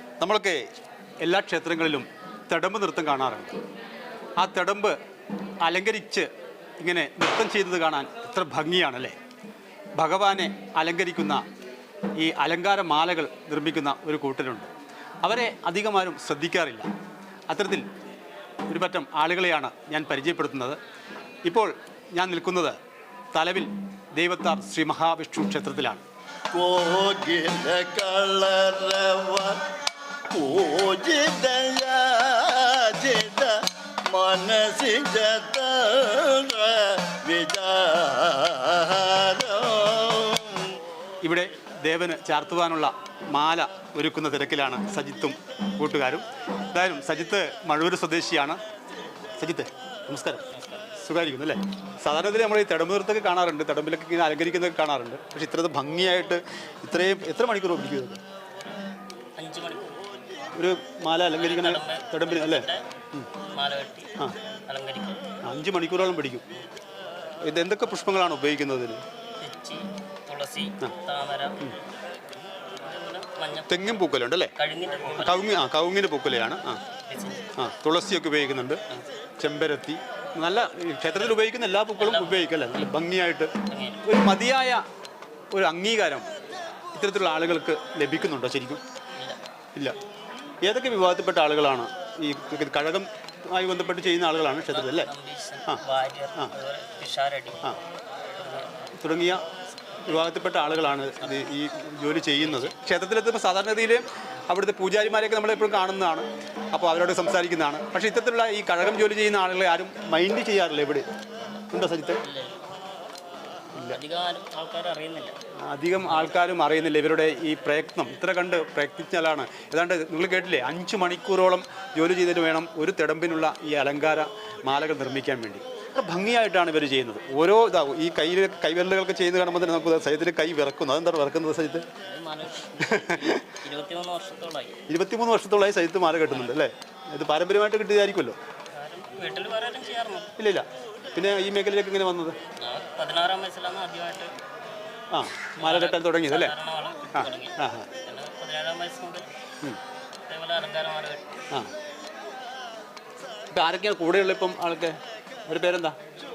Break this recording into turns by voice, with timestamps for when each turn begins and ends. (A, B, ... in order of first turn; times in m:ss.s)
0:00.2-0:00.6 A
0:01.2-0:03.6 A
0:04.4-0:05.0 A
0:05.6-0:06.3 A
0:06.8-0:09.2 A
0:10.0-0:11.4 A
0:12.2-0:14.7 A
0:15.2-0:16.9 A
0:17.5-0:17.8 A
0:18.7-0:20.8 A
0:21.4-0:22.8 A
0:23.3-0:26.0 A
0:26.5-0:29.7 B
0:30.3-0:40.8 B
0:41.2-0:48.6 A
0:49.4-0:50.4 A
0:50.5-0:50.9 C
0:51.0-0:58.2 A
0:59.4-1:00.1 C
1:00.5-1:03.3 A
1:01.3-1:04.1 C
1:04.7-1:05.2 C
1:05.4-1:06.4 A
1:07.4-1:09.0 A
1:09.4-1:11.9 C
1:12.6-1:15.6 C
1:13.7-1:14.5 A
1:15.2-1:16.8 A
1:17.0-1:17.5 C
1:17.6-1:18.8 A
1:19.4-1:23.5 A
1:21.1-1:21.4 C
1:21.9-1:23.0 C
1:23.6-1:24.1 C
1:24.0-1:24.8 A
1:25.5-1:26.3 A
1:26.9-1:28.8 A
1:30.6-1:35.1 A
1:34.7-1:38.9 C
1:39.0-1:39.4 A
1:40.0-1:51.0 A
1:41.0-1:41.5 C
1:42.4-1:42.8 C
1:51.7-1:52.2 A
1:52.2-1:52.6 C
1:53.9-1:55.4 C
1:55.6-2:11.8 A
1:56.0-1:56.5 C
2:12.0-2:14.8 C
2:12.8-2:13.5 A
2:14.9-2:18.4 A
2:16.3-2:16.6 C
2:18.7-2:20.3 C
2:20.4-2:22.4 A
2:22.6-2:24.3 C
2:25.1-2:26.5 A
2:25.5-2:29.3 C
2:27.1-2:27.9 A
2:30.3-2:31.3 C
2:33.5-2:36.0 A